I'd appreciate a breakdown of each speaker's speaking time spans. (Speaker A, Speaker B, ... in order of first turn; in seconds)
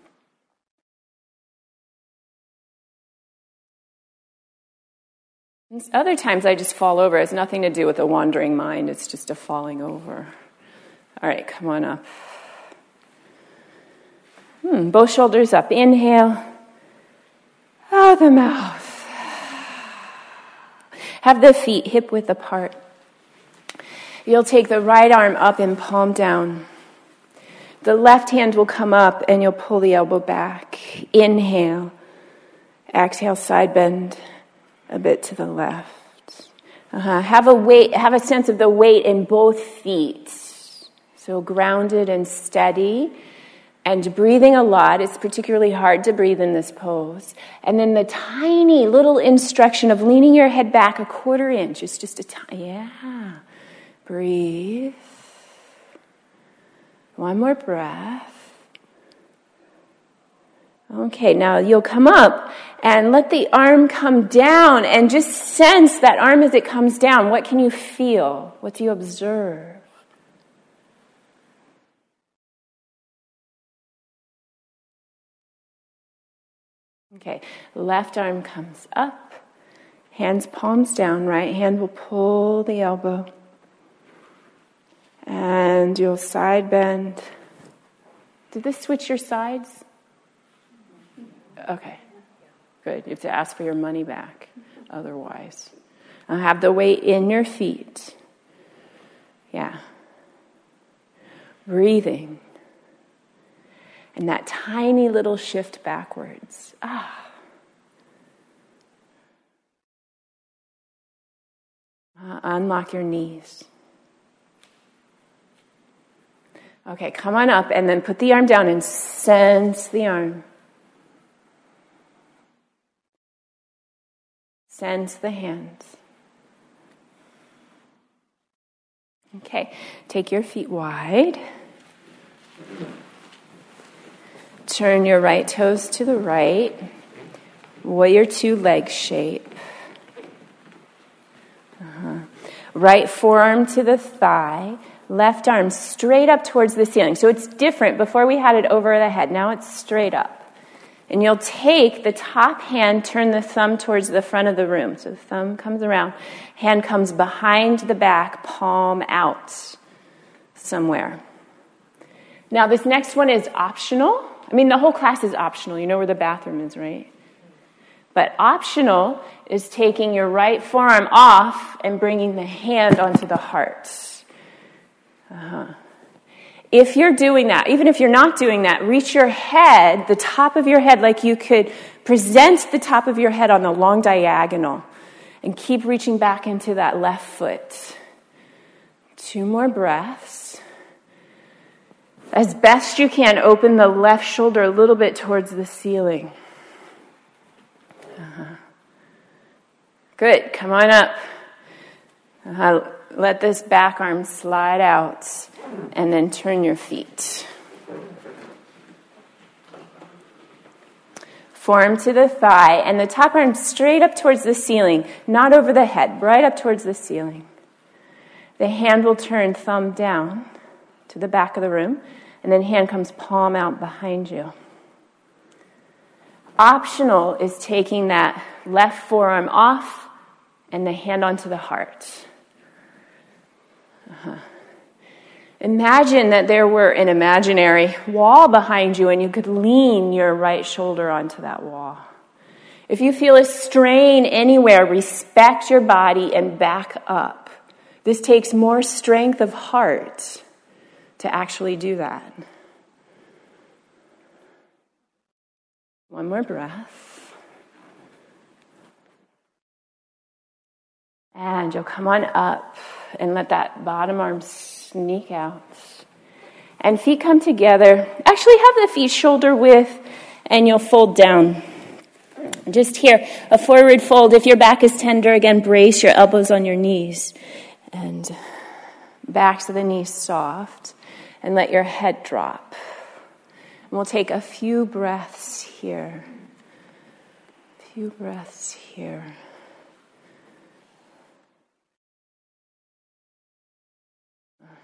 Speaker A: 5.7-10.3, 11.2-12.3, 14.6-16.5, 17.9-19.6, 21.2-22.8, 24.3-26.7, 27.8-31.9, 32.9-34.2, 34.9-43.1, 43.9-53.4, 54.1-55.1, 57.2-58.5, 60.9-69.8, 77.1-79.4, 80.1-83.3, 85.3-87.3, 88.5-89.8, 91.6-92.0, 92.8-95.7, 96.3-98.2, 99.5-99.8, 101.7-102.4, 104.2-107.3, 112.2-113.7, 116.9-120.5, 124.7-126.0, 129.3-131.4, 134.7-136.9, 137.8-139.5, 141.8-150.5, 151.1-159.8, 160.6-161.2, 162.5-167.1, 168.2-174.2, 175.3-175.8, 176.7-184.8, 185.4-188.0, 189.2-190.6, 192.3-196.3, 198.2-198.6, 200.2-201.2, 202.4-207.5, 211.5-217.5, 218.6-220.5, 221.1-224.5, 226.6-230.1, 230.7-232.3, 234.1-234.4, 235.6-242.1, 242.9-250.4, 251.2-252.4, 256.1-257.4, 261.4-266.1, 266.8-271.6, 272.7-277.4, 277.9-278.7, 279.3-282.8, 283.9-286.3, 287.8-289.4